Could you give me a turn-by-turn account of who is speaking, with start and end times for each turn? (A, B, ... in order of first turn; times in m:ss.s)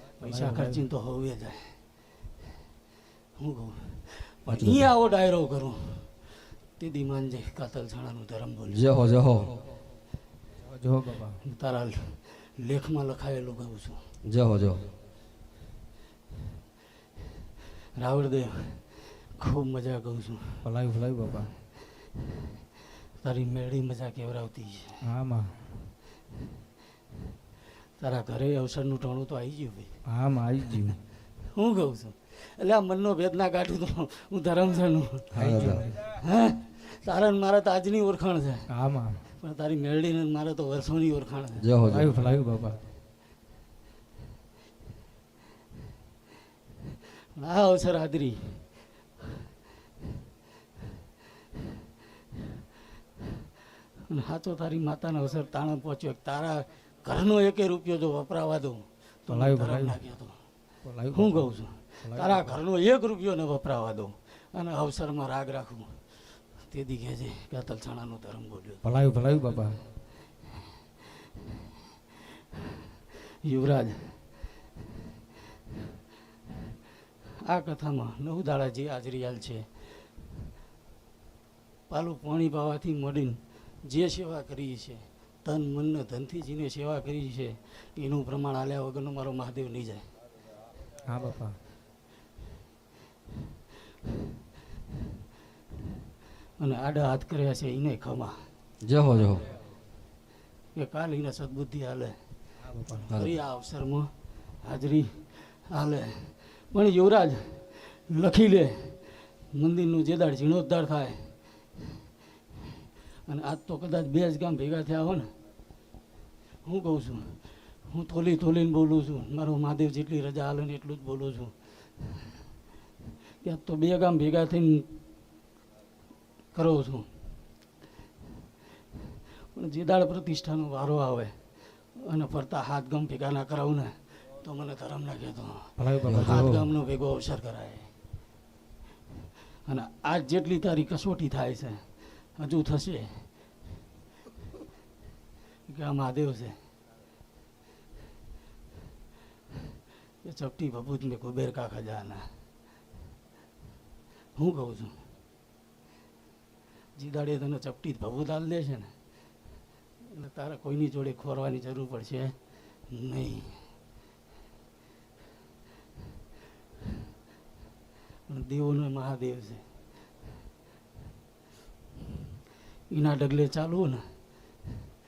0:00.2-0:01.8 A
0:00.2-0:00.8 B
0:03.4-0:06.2 A
0:04.5-0:04.9 C
0:06.8-0:08.9 A
0:08.7-0:09.6 C
0:10.6-0:11.4 B
0:11.4-0:14.0 A
0:14.2-0:14.9 C
0:18.0-0:20.7 A
0:20.6-0:21.5 B
0:23.2-0:25.0 A
0:25.0-0:25.9 B
0:28.0-0:30.0 A
0:30.0-0:31.0 B
0:31.5-0:35.3 A
0:35.3-0:35.8 C
0:35.3-0:36.0 B
0:36.0-0:38.7 A
0:38.7-0:39.2 B
0:39.4-0:41.7 A
0:41.6-0:42.1 C
0:41.8-0:42.8 B
0:47.3-0:48.7 A
0:54.0-1:00.4 A
0:59.3-1:00.0 B
1:00.8-1:02.6 B
1:01.1-1:06.0 A
1:06.6-1:08.8 A
1:08.8-1:09.8 B
1:13.4-1:14.2 A
1:17.4-1:19.7 A
1:21.9-1:30.1 A
1:31.0-1:31.6 B
1:36.6-1:38.4 A
1:38.8-1:39.5 C
1:40.8-1:42.2 A
1:42.6-1:43.1 B
1:43.1-1:44.1 A
1:43.1-1:43.4 C
1:44.6-1:51.3 A
1:53.2-1:55.3 A
1:56.6-2:01.5 A
2:03.4-2:04.9 A
2:06.5-2:07.1 A
2:09.5-2:11.4 A
2:11.9-2:17.9 A
2:15.8-2:16.7 B
2:16.0-2:16.4 C
2:19.6-2:23.3 A
2:25.7-2:26.6 A
2:30.2-2:32.3 A
2:34.4-2:35.0 A
2:37.0-2:38.9 A
2:40.1-2:42.3 A
2:42.9-2:43.6 A
2:48.3-2:49.6 A
2:52.9-2:54.0 A